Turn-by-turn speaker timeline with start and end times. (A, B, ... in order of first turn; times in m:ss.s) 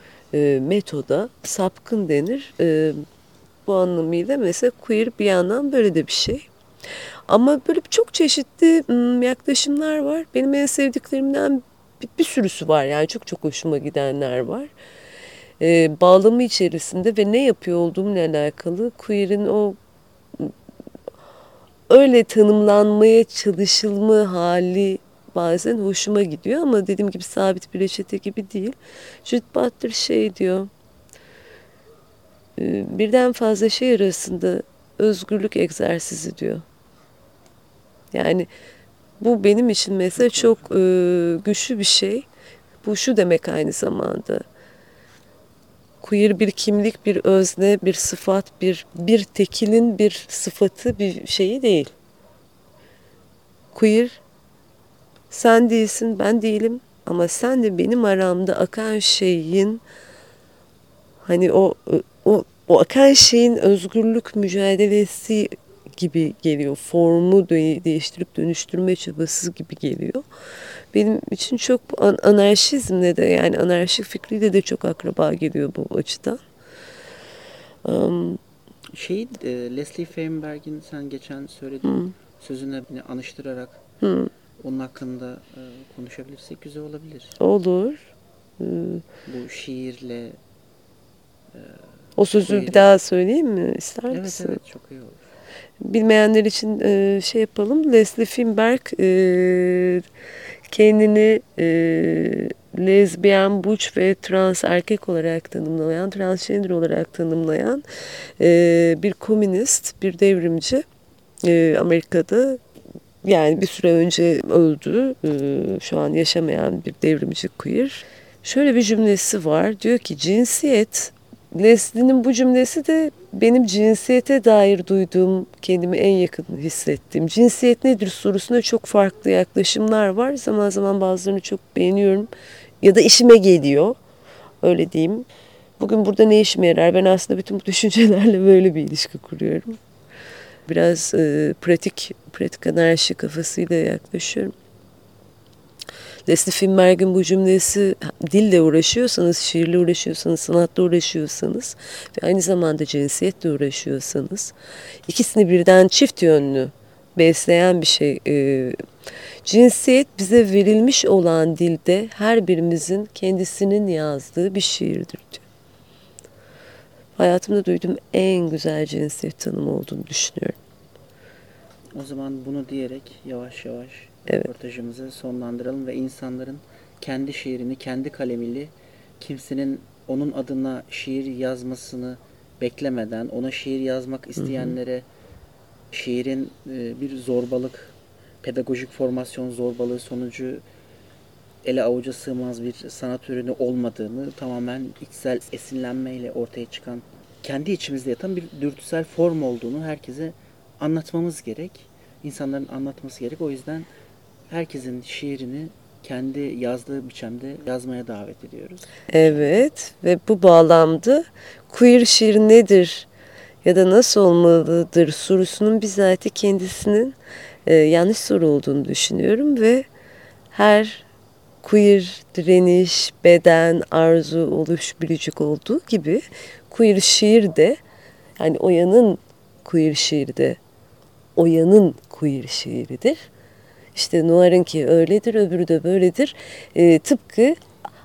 0:00.3-0:03.0 A
0:03.6-0:06.5 A
0:07.3-0:14.7 A
0:15.6-0:19.8 A
0:21.9-0:30.7 A
0:32.6-0:36.6 A
0:38.1-0:38.5 A
0:39.2-0:42.2 A
0:42.8-0:44.4 A
0:46.0-0:51.9 A
0:53.7-0:54.2 A
0:55.3-0:59.8 A
1:01.2-1:10.2 A
1:10.9-1:16.4 A
1:17.8-1:18.4 A
1:18.9-1:23.8 B
1:21.8-1:22.1 A
1:24.0-1:24.3 A
1:24.6-1:27.4 B
1:27.4-1:29.0 A
1:29.2-1:30.4 B
1:31.5-1:32.9 B
1:32.2-1:34.6 A
1:34.1-1:35.3 B
1:35.8-1:40.1 A
1:40.7-1:47.8 A
1:48.4-1:50.8 A
1:51.4-1:52.6 A
1:53.2-2:12.3 A
2:12.8-2:14.0 A
2:14.6-2:15.2 A
2:15.8-2:19.8 A
2:20.7-2:24.5 A
2:26.2-2:34.5 A
2:35.0-2:38.8 A
2:39.4-2:45.4 A
2:47.2-2:50.6 A
2:51.9-3:05.0 B
3:04.4-3:04.8 A
3:05.9-3:10.6 B
3:11.6-3:23.9 B
3:24.5-3:29.6 B
3:29.1-3:33.1 A
3:33.6-3:39.8 A
3:40.5-3:41.0 A
3:41.6-3:47.8 A
3:48.4-3:50.6 A
3:51.4-3:53.3 A
3:53.9-3:57.6 A